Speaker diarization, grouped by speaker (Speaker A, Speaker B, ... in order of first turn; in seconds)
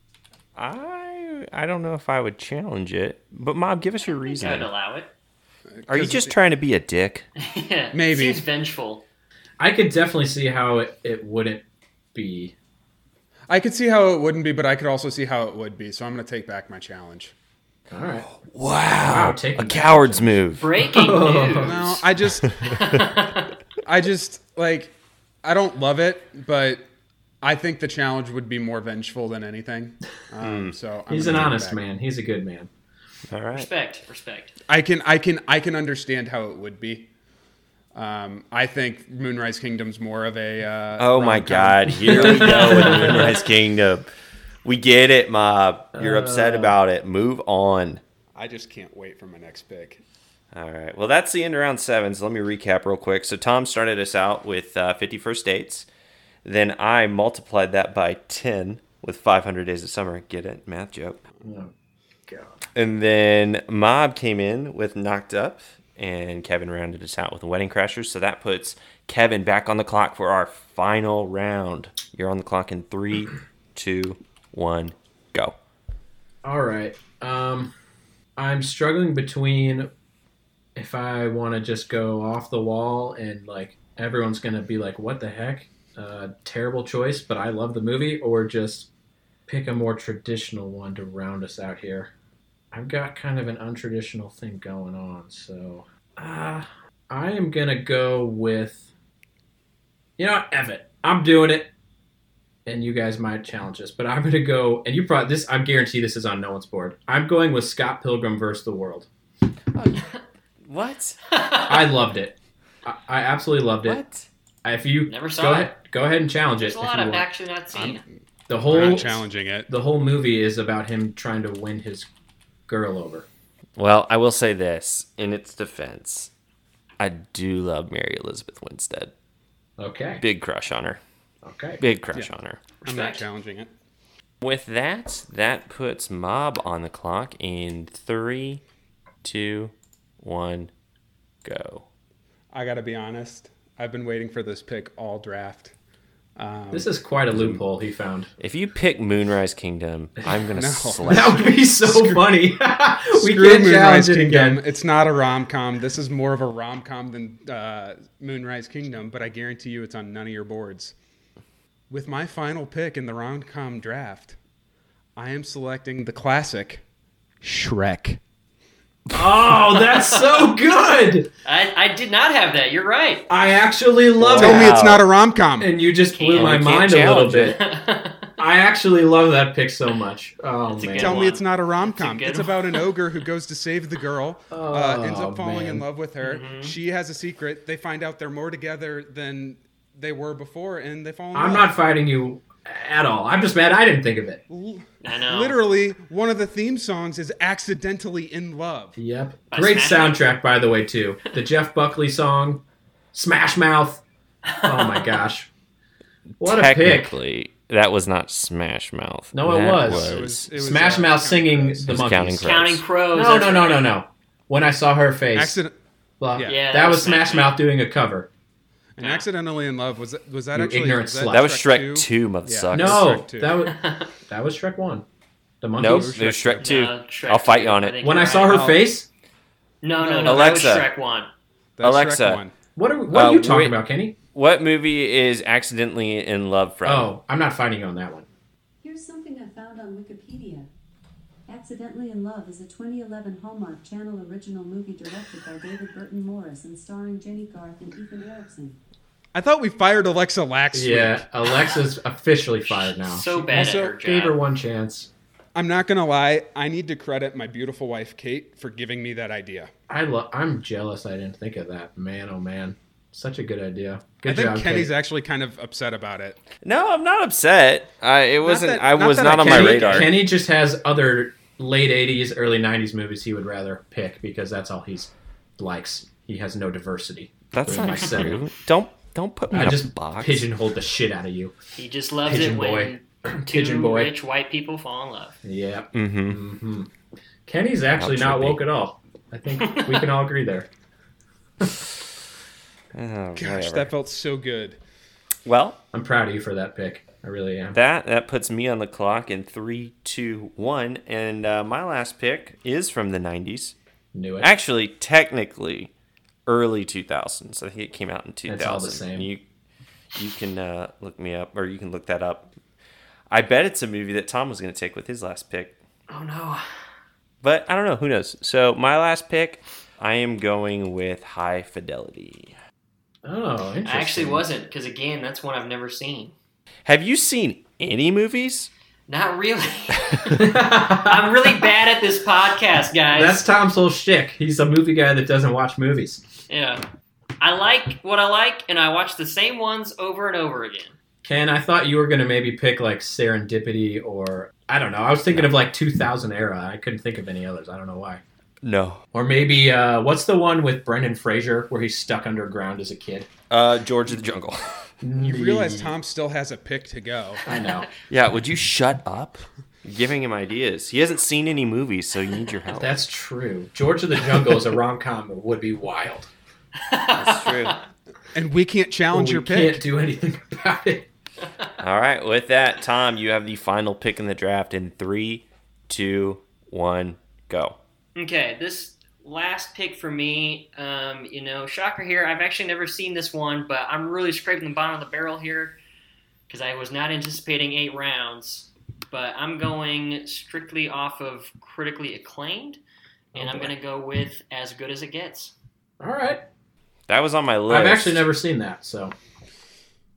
Speaker A: 0.6-4.7, 5.9-7.3, 18.3-20.7, 30.4-30.8, 33.3-33.7, 41.0-44.1, 44.6-48.0, 50.5-55.9, 56.4-61.2, 62.7-75.5, 109.7-110.0, 110.6-111.2, 113.8-114.3, 123.8-126.3, 127.0-129.1, 130.2-131.0, 131.8-132.6, 134.4-138.6, 139.2-140.7, 141.4-141.8, 148.4-151.4, 174.2-175.0, 176.3-177.6, 206.4-210.5, 211.8-212.8, 221.3-223.1, 225.8-228.3, 230.2-230.9, 231.8-232.4, 233.1-233.8, 234.3-237.1, 266.6-270.1, 277.5-280.5, 285.9-286.4, 288.0-288.6, 292.9-293.9, 295.4-295.8, 297.7-303.7, 304.4-305.9, 306.4-309.4, 310.1-312.5, 313.3-315.8, 317.4-322.5, 326.8-328.7, 348.6-349.0, 353.5-354.9, 358.1-363.0, 367.1-367.8, 371.8-377.8, 397.1-398.3
Speaker B: 4.3-5.1, 7.3-9.0, 20.6-22.0, 22.6-23.5, 33.5-34.5, 111.3-112.0, 115.0-115.7, 116.6-118.0, 132.8-133.3, 169.9-170.5, 171.4-173.2, 176.1-176.8, 177.5-178.4, 180.7-183.0, 186.2-186.7, 195.0-195.6, 199.5-200.3, 204.4-205.2, 212.4-213.9, 216.4-217.6, 219.0-219.3, 223.6-224.1, 226.6-228.8, 229.8-231.3, 251.4-251.7, 252.7-254.4, 277.9-278.2, 281.8-285.4, 289.6-290.1, 316.1-316.6, 323.8-326.3, 329.1-333.4, 336.5-336.8, 337.4-340.9, 366.8-367.8, 378.1-385.8, 386.5-392.8, 393.3-395.5
Speaker C: 5.7-6.3, 7.9-8.5, 13.5-17.3, 21.3-22.8, 23.8-26.9, 27.4-31.8, 34.7-37.1, 37.9-43.1, 48.3-50.0, 117.7-119.7, 132.8-133.7, 142.5-145.7, 146.4-147.6, 150.5-152.4, 153.1-160.9, 161.9-164.4, 165.2-166.8, 167.4-168.2, 174.3-175.7, 180.9-191.7, 194.5-199.0, 209.8-212.2, 215.3-215.7, 216.3-216.6, 218.9-223.7, 225.8-226.8, 228.5-228.8, 230.1-230.4, 231.8-232.5, 249.3-251.2, 253.5-254.0, 255.5-259.7, 264.2-266.4, 268.4-270.2, 293.4-294.8, 355.2-357.4, 368.3-369.8
Speaker D: 9.6-12.5, 17.9-18.3, 19.0-21.9, 31.1-32.7, 42.1-43.4, 46.0-46.8, 61.4-61.7, 62.3-62.6, 76.4-77.7, 78.4-79.9, 80.8-88.9, 89.5-92.1, 92.7-98.9, 100.2-101.7, 102.7-109.1, 111.7-114.0, 114.6-117.2, 118.5-122.1, 122.7-123.2, 129.8-130.2, 131.4-131.8, 146.7-148.3, 151.0-154.6, 169.1-171.3, 173.3-174.9, 175.6-177.6, 178.4-181.2, 184.5-185.8, 191.3-194.4, 199.0-202.6, 203.1-204.0, 204.6-205.5, 206.4-207.2, 209.3-212.5, 213.1-215.6, 216.2-218.3, 220.5-221.4, 222.7-225.0, 225.6-226.2, 228.0-229.1, 232.8-234.1, 236.8-238.3, 250.7-255.1, 259.9-264.9, 269.4-278.4, 279.5-281.5, 282.2-284.1, 285.4-286.9, 287.4-290.7, 295.9-297.8, 304.1-304.5, 308.5-309.3, 323.2-324.4, 330.3-331.5, 333.1-336.2, 341.2-348.2, 349.1-353.3, 355.0-355.9, 357.4-357.9, 362.7-366.3, 369.1-371.1, 393.3-393.7, 396.0-396.4, 397.7-399.1
Speaker E: 238.8-240.7, 241.5-248.8